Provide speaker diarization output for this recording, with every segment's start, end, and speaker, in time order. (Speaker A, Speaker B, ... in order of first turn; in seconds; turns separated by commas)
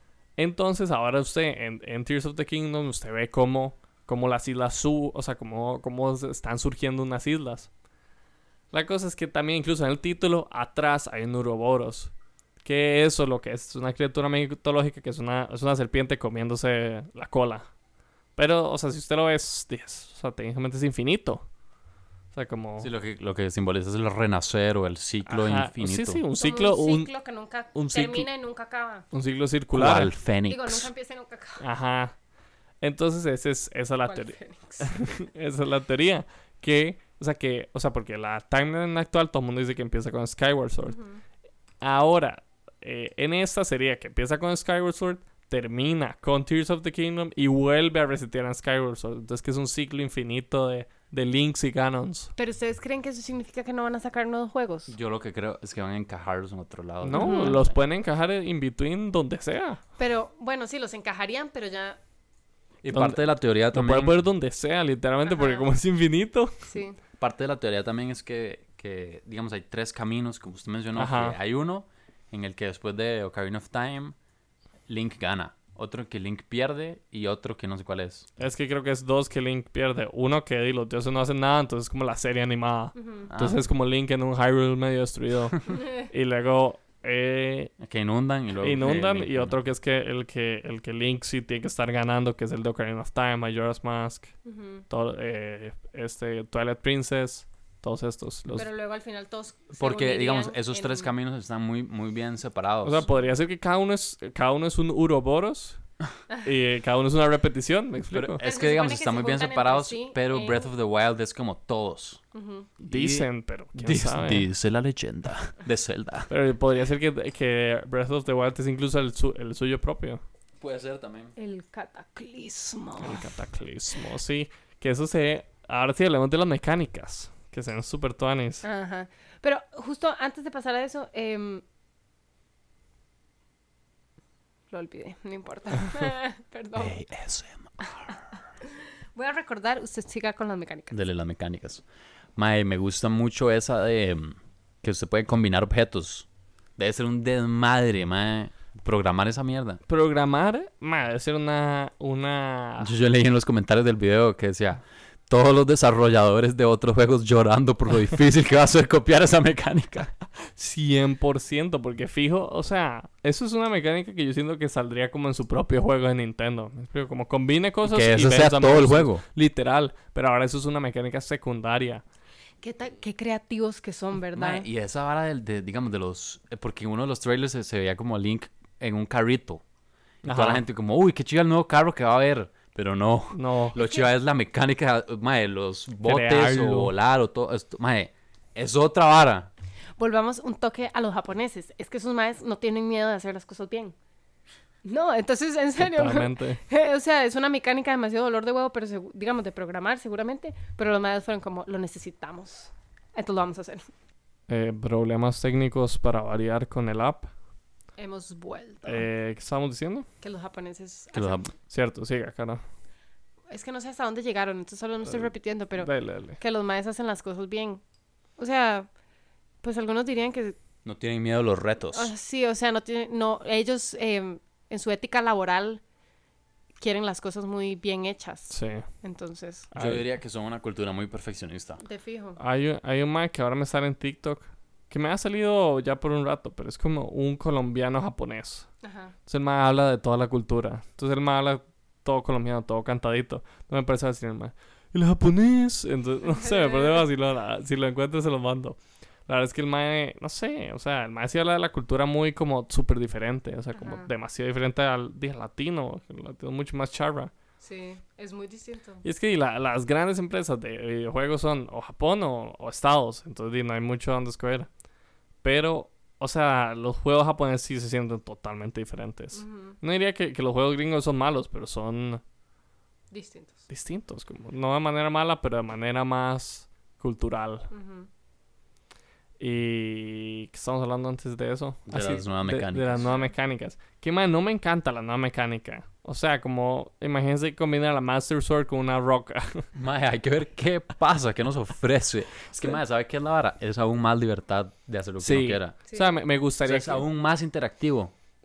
Speaker A: 0.4-7.7, Speaker A: 8.7-12.1, Speaker A: 12.6-17.7, Speaker A: 18.4-21.4, Speaker A: 22.3-22.9, Speaker B: 22.8-26.2, Speaker A: 25.3-27.1, Speaker C: 26.4-29.1, Speaker A: 27.8-28.3, Speaker A: 29.1-30.1, Speaker B: 29.7-30.9, Speaker C: 30.5-31.6, Speaker A: 31.6-32.1, Speaker A: 32.8-41.0, Speaker C: 34.0-35.1, Speaker C: 40.9-41.2, Speaker A: 41.8-52.3, Speaker C: 52.4-55.0, Speaker B: 54.9-57.8, Speaker A: 57.0-59.8, Speaker C: 57.1-57.6, Speaker C: 60.0-62.0, Speaker B: 62.8-64.2, Speaker A: 62.9-66.6, Speaker C: 65.3-65.7, Speaker C: 66.7-67.0, Speaker B: 67.2-74.2, Speaker A: 71.0-71.4, Speaker B: 74.9-78.3, Speaker A: 78.4-87.7, Speaker C: 83.0-83.3, Speaker B: 83.3-83.6, Speaker B: 87.8-89.6, Speaker A: 88.6-94.3, Speaker C: 94.5-94.8, Speaker A: 94.9-98.7, Speaker C: 98.5-101.1, Speaker B: 99.8-103.0, Speaker A: 102.8-105.8, Speaker C: 103.0-103.3, Speaker A: 106.4-108.4, Speaker B: 108.1-112.2, Speaker C: 108.4-110.7, Speaker C: 112.3-112.7, Speaker A: 112.8-114.5, Speaker B: 112.9-116.3, Speaker A: 116.3-120.2, Speaker B: 120.6-121.3, Speaker C: 121.4-123.3, Speaker A: 123.0-128.6, Speaker C: 128.6-131.6, Speaker C: 134.7-137.0, Speaker B: 136.8-138.2, Speaker C: 138.6-141.0, Speaker B: 140.9-141.8, Speaker B: 142.4-149.8, Speaker A: 149.9-152.9, Speaker B: 152.8-160.1, Speaker A: 160.6-172.0, Speaker B: 167.8-169.2, Speaker C: 172.6-174.7, Speaker B: 174.3-179.6, Speaker A: 180.2-180.6, Speaker B: 180.3-189.5, Speaker A: 183.3-183.8, Speaker C: 183.7-184.1, Speaker A: 186.1-186.9, Speaker C: 190.0-193.9, Speaker C: 194.8-203.9, Speaker A: 195.8-196.6, Speaker A: 204.5-207.3, Speaker C: 208.0-209.1, Speaker A: 208.9-210.1, Speaker C: 210.2-211.4, Speaker B: 211.1-211.5, Speaker A: 211.6-212.6, Speaker C: 213.5-217.8, Speaker A: 215.1-216.4, Speaker C: 218.4-218.9, Speaker C: 219.6-220.6, Speaker B: 220.8-222.1, Speaker C: 221.9-225.8, Speaker C: 226.8-229.7, Speaker A: 228.5-228.8, Speaker A: 229.7-230.1, Speaker B: 229.8-231.8, Speaker C: 231.8-232.4, Speaker A: 232.4-238.7, Speaker C: 238.8-239.2, Speaker A: 239.3-257.3, Speaker C: 246.2-247.1, Speaker C: 253.7-254.1, Speaker C: 257.6-259.0, Speaker A: 259.0-264.7, Speaker A: 265.4-272.2, Speaker C: 269.3-269.8, Speaker C: 273.1-273.7, Speaker A: 273.7-277.7, Speaker C: 277.7-278.1, Speaker A: 279.4-289.7, Speaker B: 281.9-283.1, Speaker C: 283.0-283.3, Speaker B: 289.7-295.8, Speaker A: 295.2-297.1, Speaker C: 295.9-296.1, Speaker B: 296.6-298.1